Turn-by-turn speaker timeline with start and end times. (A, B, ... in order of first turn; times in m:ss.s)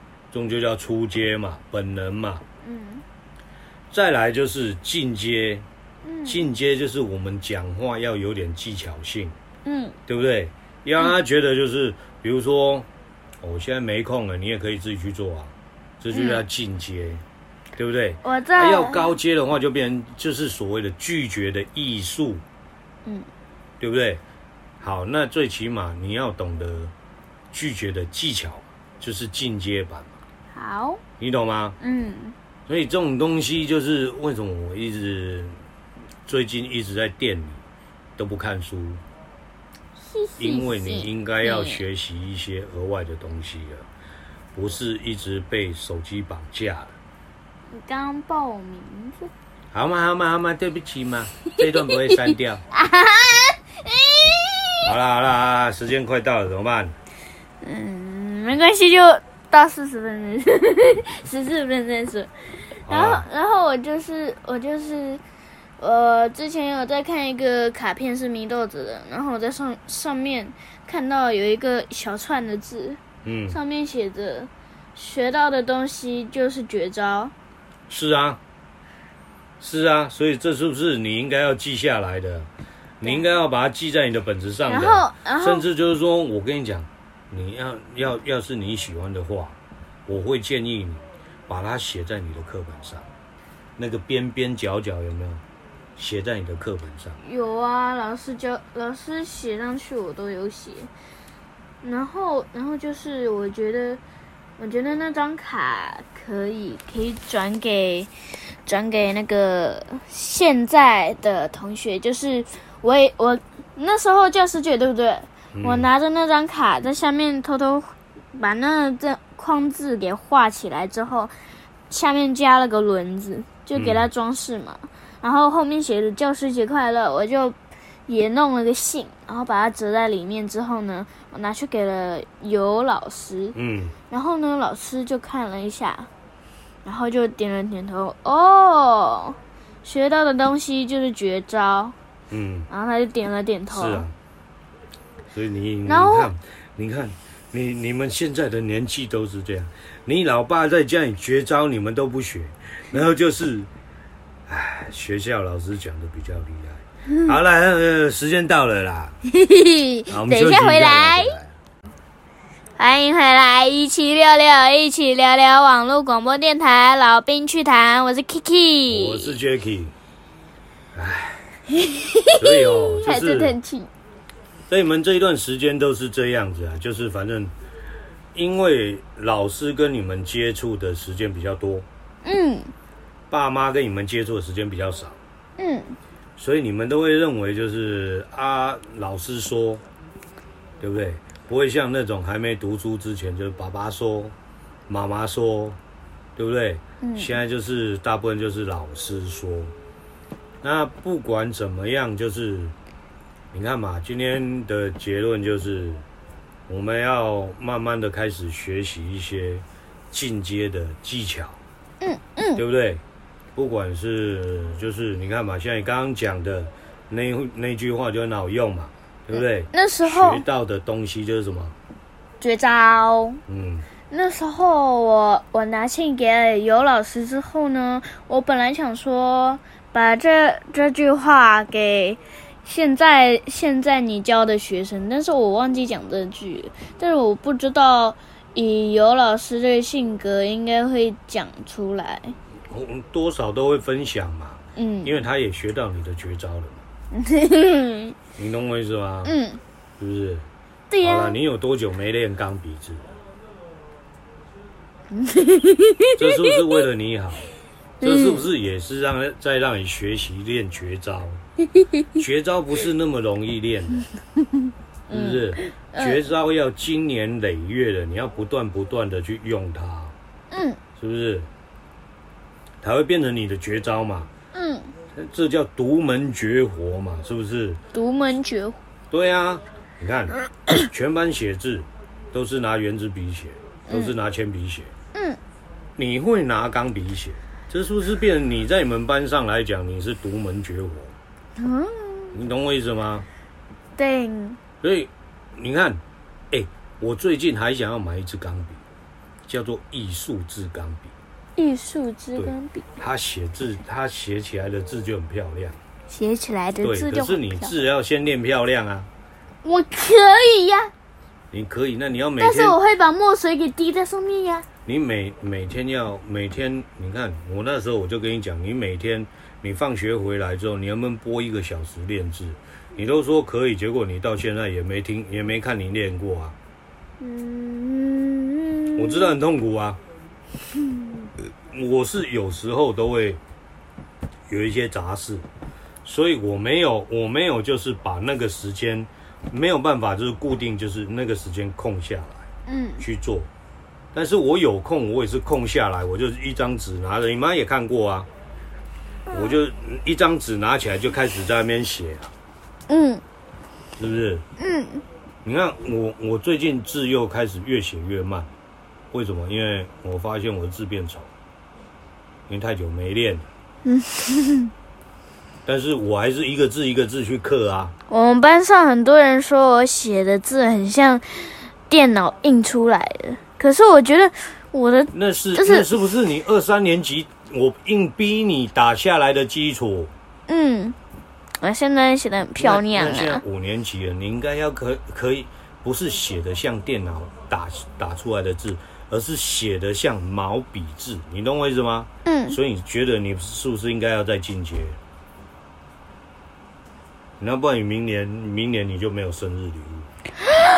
0:00.3-0:02.4 A
0:02.6-0:03.0 B
0:03.9-0:05.6 A
0:06.0-0:06.5 B
0:06.3-0:09.4 A
0:09.6-0:10.0 B
0:10.1-0:12.9 A
0:13.4-0:17.2 A
0:16.1-0:16.4 B
0:17.8-0:22.4 A
0:18.2-0:19.1 B
0:23.8-0:24.2 A
0:24.8-0:26.9 A
0:27.5-0:30.2 A
0:30.5-0:31.0 B
0:31.2-0:31.8 A
0:31.8-0:32.4 B
0:32.7-0:35.6 A
0:36.3-0:37.6 A
0:38.2-0:39.0 A
0:40.0-0:41.8 B
0:40.4-0:43.8 A
0:44.6-0:47.0 A
0:47.7-0:49.3 B
0:49.7-0:52.6 A
0:51.6-0:54.9 B
0:54.8-0:56.9 A
0:57.6-1:02.3 B
1:02.9-1:03.2 A
1:02.9-1:05.2 B
1:05.8-1:17.3 B
1:13.2-1:13.6 A
1:17.9-1:18.4 A
1:19.6-1:22.5 A
1:23.0-1:33.1 A
1:24.7-1:25.6 B
1:33.8-1:35.4 A
1:36.0-1:37.2 A
1:37.2-1:40.9 B
1:41.8-1:44.0 B
1:44.6-1:48.1 B
1:48.7-2:01.3 B
1:55.6-1:55.9 A
2:01.9-2:07.6 B
2:03.8-2:04.1 A
2:08.1-2:13.6 B
2:13.6-2:13.9 A
2:14.1-2:16.1 B
2:16.8-2:22.0 B
2:22.3-2:22.7 A
2:22.7-2:24.1 B
2:23.7-2:24.1 A
2:25.3-2:33.7 A
2:25.9-2:26.3 B
2:34.5-2:39.2 A
2:39.3-2:41.4 B
2:40.1-2:41.6 A
2:42.8-2:49.4 B
2:48.9-2:49.9 A
2:51.0-2:51.5 A
2:51.7-2:53.9 B
2:52.4-2:53.6 A
2:54.7-2:57.5 A
2:58.3-3:01.9 A
3:02.2-3:02.7 B
3:03.3-3:05.2 A
3:05.6-3:06.0 B
3:06.4-3:09.8 A
3:10.8-3:14.3 A
3:14.9-3:15.8 A
3:16.4-3:19.7 A
3:17.0-3:17.3 B
3:20.6-3:22.7 A
3:23.5-3:26.0 A
3:26.7-3:31.6 A
3:32.0-3:32.6 B
3:32.6-3:33.0 A
3:33.6-3:41.8 A
3:39.4-3:40.4 B
3:42.4-3:43.4 B
3:43.5-3:43.9 A
3:44.1-4:02.4 B
4:02.7-4:06.8 A
4:04.8-4:05.1 B
4:07.1-4:08.2 B
4:08.4-4:09.4 A
4:09.2-4:09.6 B
4:10.0-4:10.4 A
4:10.9-4:11.4 B
4:11.0-4:13.1 A
4:15.1-4:16.6 B
4:16.2-4:21.4 A
4:18.0-4:18.5 B
4:22.2-4:24.1 A
4:25.1-4:26.2 B
4:25.1-4:30.1 A
4:30.5-4:30.8 B
4:31.0-4:31.5 A
4:32.8-4:34.3 A
4:34.5-4:34.9 B
4:35.1-4:37.8 A
4:37.9-4:38.8 B
4:39.1-4:44.9 A
4:43.9-4:44.1 B
4:45.1-4:45.4 B
4:46.0-4:51.2 A
4:51.6-4:52.4 B
4:52.3-4:53.3 A
4:54.0-4:54.6 B
4:54.8-4:58.8 A
4:59.5-5:01.1 A
5:01.6-5:02.9 B
5:02.4-5:05.8 A
5:06.1-5:07.8 B
5:06.8-5:09.1 A
5:09.6-5:10.9 B
5:11.5-5:12.8 A
5:12.4-5:14.7 B
5:14.9-5:26.6 A
5:27.2-5:29.3 B
5:29.0-5:30.0 A
5:31.7-5:33.4 A
5:34.5-5:35.5 A
5:36.0-5:42.5 A
5:42.7-5:43.0 B
5:43.0-5:43.5 A
5:44.1-5:48.3 A
5:49.3-5:49.6 B
5:49.3-5:52.3 A
5:52.9-5:53.2 B
5:54.0-5:54.4 A
5:54.6-5:55.0 B
5:55.4-5:58.6 A
5:59.1-6:01.3 A
6:02.5-6:03.5 A
6:03.9-6:04.7 B
6:05.7-6:07.9 A
6:08.1-6:15.9 B
6:15.1-6:20.1 A
6:20.5-6:21.0 B
6:21.6-6:23.4 B
6:22.6-6:35.0 A
6:32.2-6:32.6 B
6:37.4-6:40.1 A